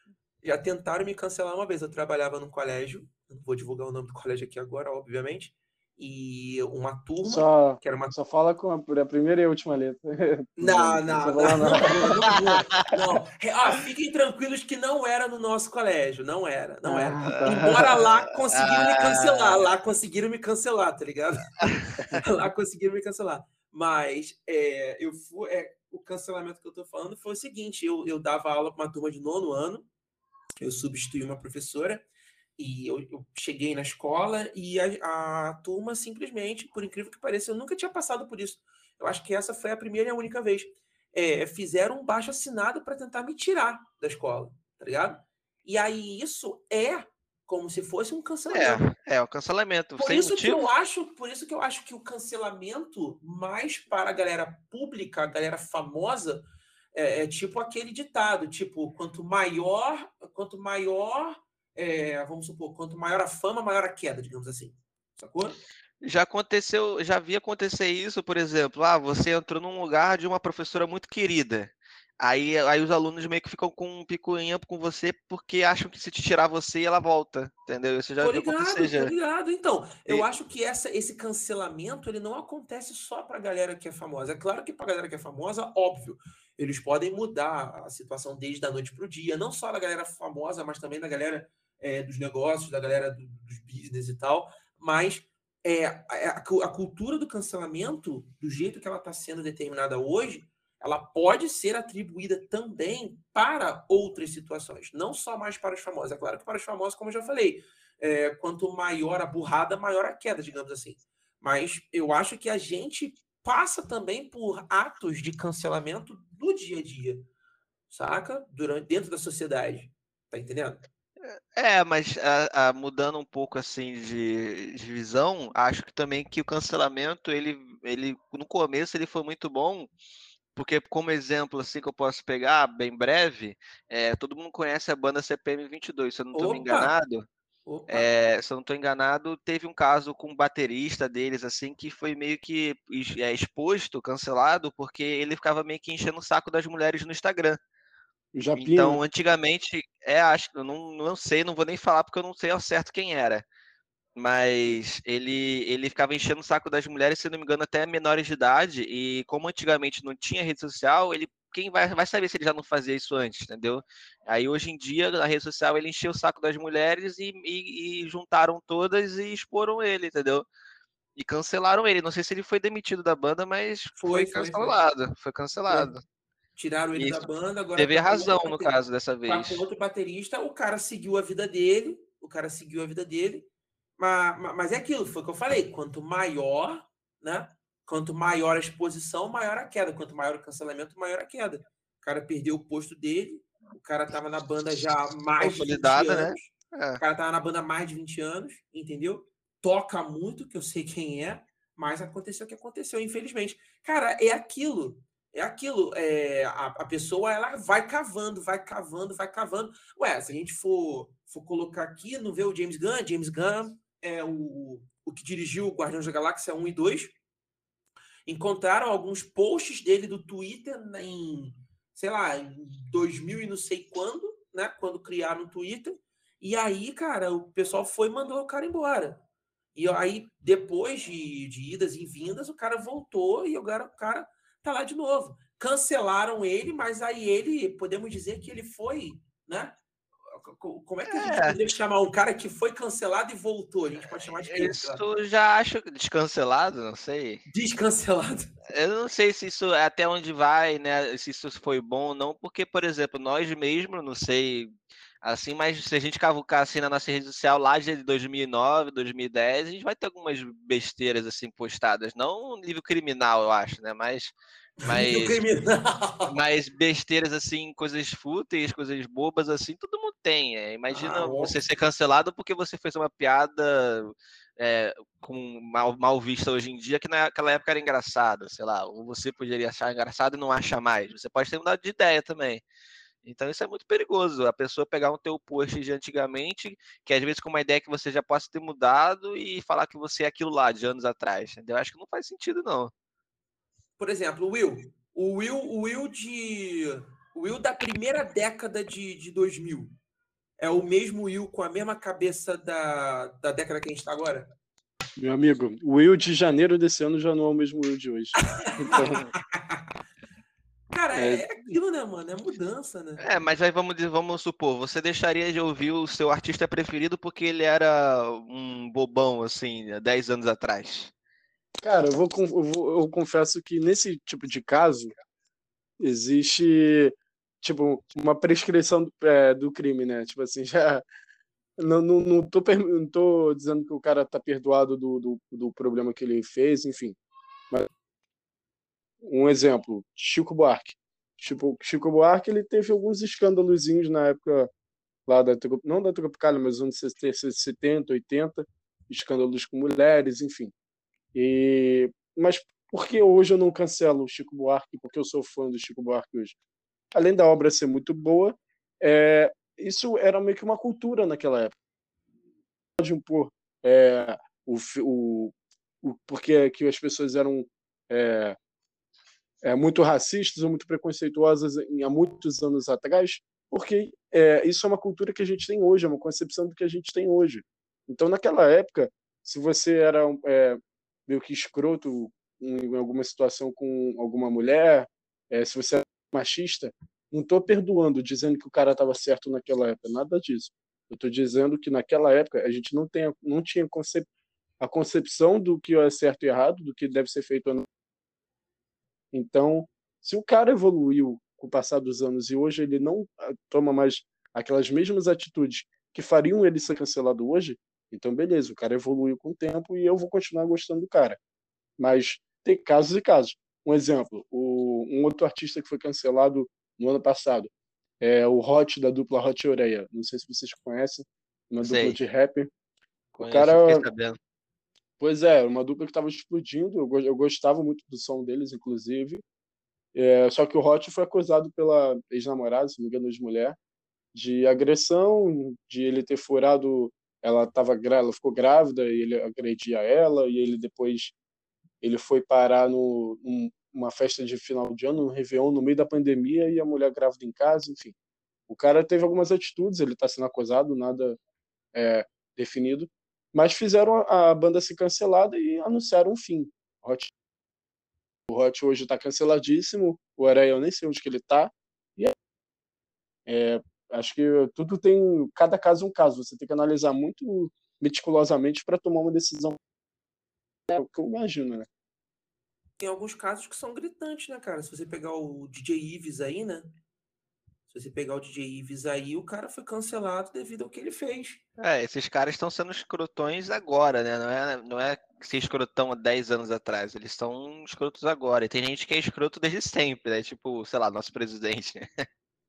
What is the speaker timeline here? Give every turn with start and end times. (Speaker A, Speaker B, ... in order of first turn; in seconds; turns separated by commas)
Speaker A: 0.4-8.1, Speaker B: 7.2-12.3, Speaker A: 10.6-29.9, Speaker B: 16.8-17.7, Speaker C: 17.3-19.6, Speaker C: 21.6-22.2, Speaker A: 30.6-32.0, Speaker A: 32.6-48.9, Speaker C: 48.5-50.6, Speaker A: 50.0-65.6, Speaker C: 66.0-79.1, Speaker A: 78.2-117.3, Speaker A: 117.9-120.8, Speaker C: 121.3-129.9, Speaker C: 130.5-137.3, Speaker A: 136.3-136.9, Speaker A: 137.7-138.1, Speaker C: 137.9-147.6, Speaker B: 148.3-149.0, Speaker C: 148.6-153.4, Speaker C: 154.2-170.5, Speaker C: 171.2-176.0, Speaker A: 174.0-174.8, Speaker A: 176.6-183.5, Speaker C: 176.9-179.6, Speaker A: 184.0-217.1, Speaker C: 195.4-197.0, Speaker A: 218.2-229.2, Speaker A: 229.7-239.8, Speaker A: 240.3-245.0, Speaker C: 241.1-241.6, Speaker C: 244.5-247.4, Speaker A: 247.5-248.5, Speaker C: 248.7-254.7, Speaker C: 255.2-265.4, Speaker A: 264.8-266.3, Speaker C: 266.3-282.6, Speaker A: 270.9-271.6, Speaker C: 283.2-292.9, Speaker A: 294.0-299.9, Speaker A: 300.6-304.5, Speaker B: 305.2-309.2, Speaker A: 308.6-309.9, Speaker C: 309.0-309.2, Speaker A: 310.9-313.2, Speaker B: 311.1-311.5, Speaker C: 313.2-321.1, Speaker B: 321.8-325.1, Speaker B: 326.0-331.0, Speaker B: 331.8-337.2, Speaker B: 339.2-344.7, Speaker B: 345.3-350.7, Speaker B: 351.3-356.5, Speaker B: 357.1-361.7, Speaker B: 363.0-368.6, Speaker B: 369.6-394.3, Speaker B: 394.8-397.9, Speaker B: 399.3-411.4, Speaker B: 412.0-422.7, Speaker C: 421.8-422.2, Speaker B: 423.3-424.1, Speaker C: 423.4-424.4, Speaker B: 425.2-429.4, Speaker B: 430.1-433.8, Speaker B: 434.3-441.3, Speaker B: 442.0-448.1, Speaker B: 448.7-451.4, Speaker B: 451.9-457.3, Speaker B: 458.5-462.3, Speaker B: 463.4-469.8, Speaker B: 470.9-471.9, Speaker A: 473.0-476.9, Speaker A: 477.9-481.6, Speaker C: 481.8-492.2